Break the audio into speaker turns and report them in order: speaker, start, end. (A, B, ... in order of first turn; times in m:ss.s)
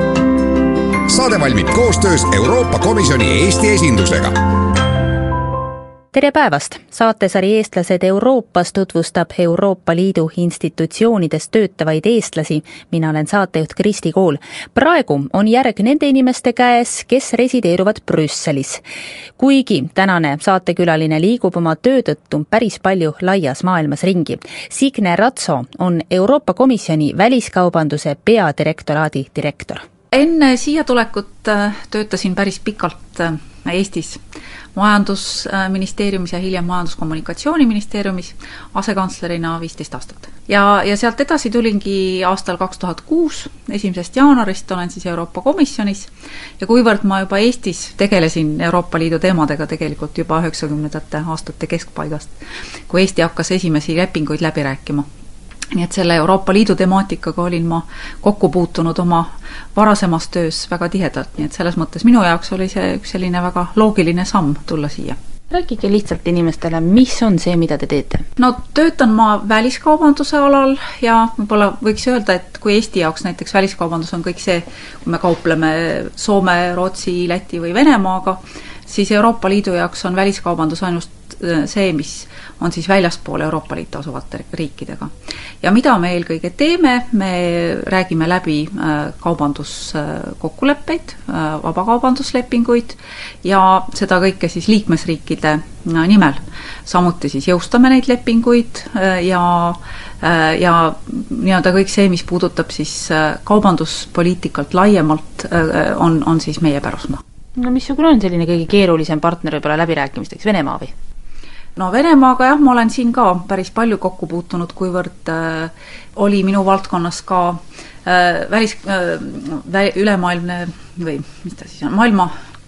0:01.1-0:04.4 A
0:06.1-0:18.8 B
0:19.4-0:29.8 B
0:30.1-0:34.2 C
0:34.8-0:52.3 C
0:52.9-0:55.1 C
0:55.7-1:05.2 C
1:05.5-1:08.2 B
1:08.4-1:47.2 C
1:47.6-1:50.9 B
1:51.8-2:02.3 C